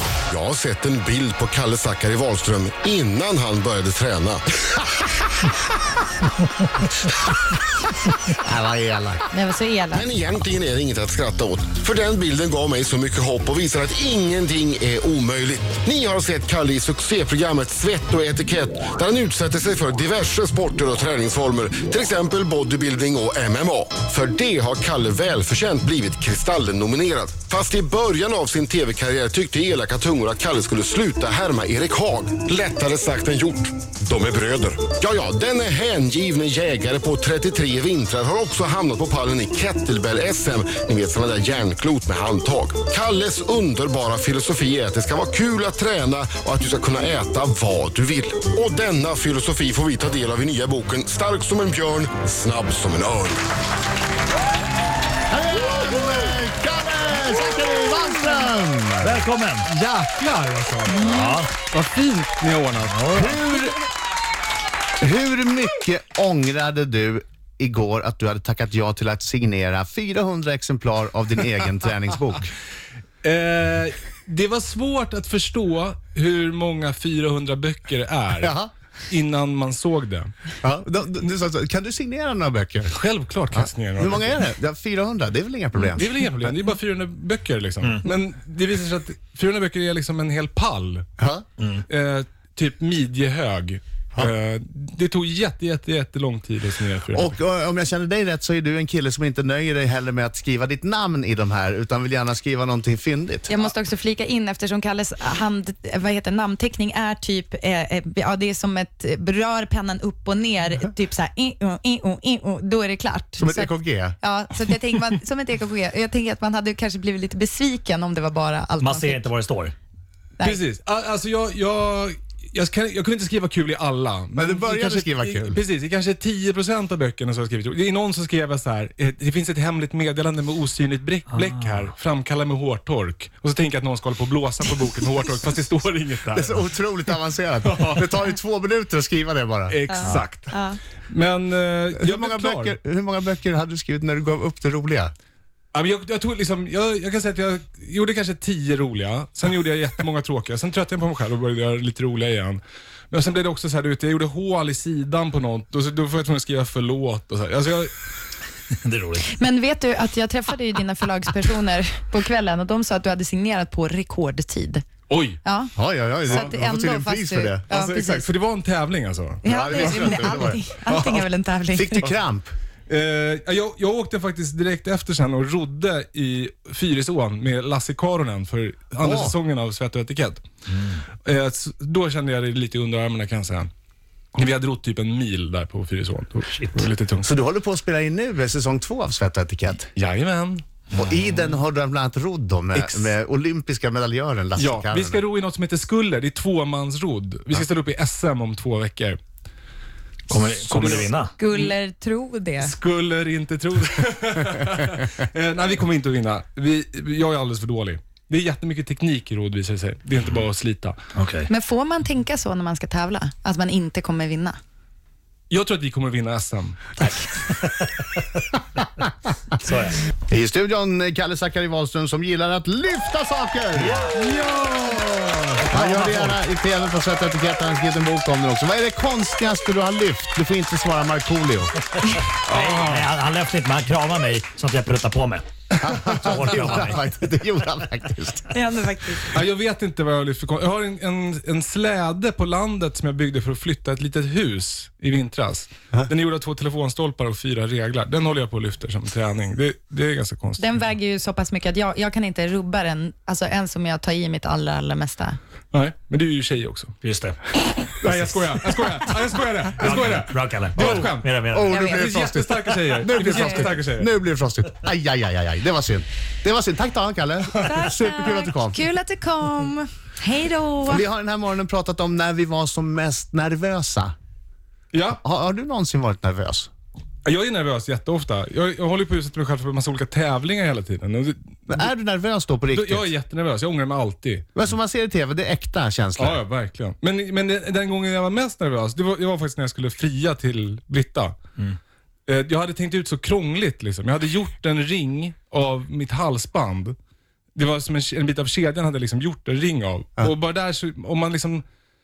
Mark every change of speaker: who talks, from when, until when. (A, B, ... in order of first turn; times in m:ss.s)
0:00.3-0:04.4 A
0:08.4-0:09.3 B
0:09.3-0:10.1 C
0:09.9-0:53.4 A
0:55.3-0:59.2 B
0:59.0-0:59.7 D
0:59.7-1:03.8 E
1:01.0-1:01.5 D
1:02.9-1:03.4 D
1:05.0-1:12.5 B
1:13.2-1:18.5 E
1:18.4-1:18.7 B
1:19.1-1:20.3 E
1:20.6-1:23.0 B
1:22.9-1:24.4 E
1:23.5-1:26.1 B
1:25.8-1:31.1 E
1:31.2-1:31.4 B
1:31.9-1:37.4 E
1:37.1-1:43.6 B
1:43.5-1:59.3 C
1:53.4-1:54.2 B
1:58.8-1:59.7 D
2:00.4-2:00.6 C
2:00.4-2:16.6 E
2:04.4-2:05.6 B
2:11.3-2:11.6 D
2:16.3-2:20.2 B
2:17.6-2:18.1 E
2:19.7-2:20.5 E
2:19.9-2:20.8 C
2:21.1-2:22.8 E
2:22.0-2:25.1 B
2:25.7-2:32.6 E
2:33.1-2:37.9 E
2:38.7-2:39.2 D
2:39.2-2:44.8 C
2:45.1-2:45.4 E
2:45.4-2:45.7 C
2:45.8-2:47.7 B
2:46.3-2:48.3 C
2:47.7-2:51.2 E
2:49.4-2:52.1 C
2:49.4-2:50.6 B
2:51.8-2:52.5 B
2:52.9-3:00.4 E
2:59.0-2:59.4 B
3:00.7-3:01.0 D
3:01.2-3:03.7 E
3:04.4-3:07.3 E
3:07.2-3:09.9 B
3:10.0-3:10.6 E
3:11.0-3:15.2 B
3:12.8-3:13.1 E
3:14.6-3:19.2 E
3:20.3-3:21.3 D
3:20.3-3:21.7 E
3:21.4-3:22.8 C
3:22.6-3:31.0 E
3:31.2-3:31.5 D
3:31.5-3:34.6 C
3:35.5-3:37.0 E
3:37.4-3:38.2 D
3:39.6-3:40.1 D
3:40.3-3:44.1 B
3:43.8-3:44.1 D
3:44.4-3:45.3 E
3:45.4-3:51.8 B
3:45.6-3:46.4 D
3:52.5-3:53.1 E
3:52.5-3:55.5 D
3:55.8-3:58.5 B
3:56.0-3:57.0 D
3:58.5-3:59.4 C
3:59.3-4:10.6 E
4:10.6-4:15.4 C
4:15.7-4:17.0 E
4:17.0-4:17.4 D
4:17.8-4:24.1 E
4:18.0-4:18.4 D
4:19.8-4:21.7 D
4:20.8-4:28.8 B
4:21.7-4:22.0 C
4:23.1-4:23.7 C
4:27.6-4:31.0 C
4:30.9-4:34.1 B
4:34.9-4:35.2 E
4:35.2-4:36.7 B
4:37.2-4:41.9 E
4:41.7-4:43.1 B
4:42.7-4:44.5 E
4:44.6-4:46.4 B
4:46.2-4:51.4 E
4:52.3-4:57.0 E
4:57.6-5:01.6 E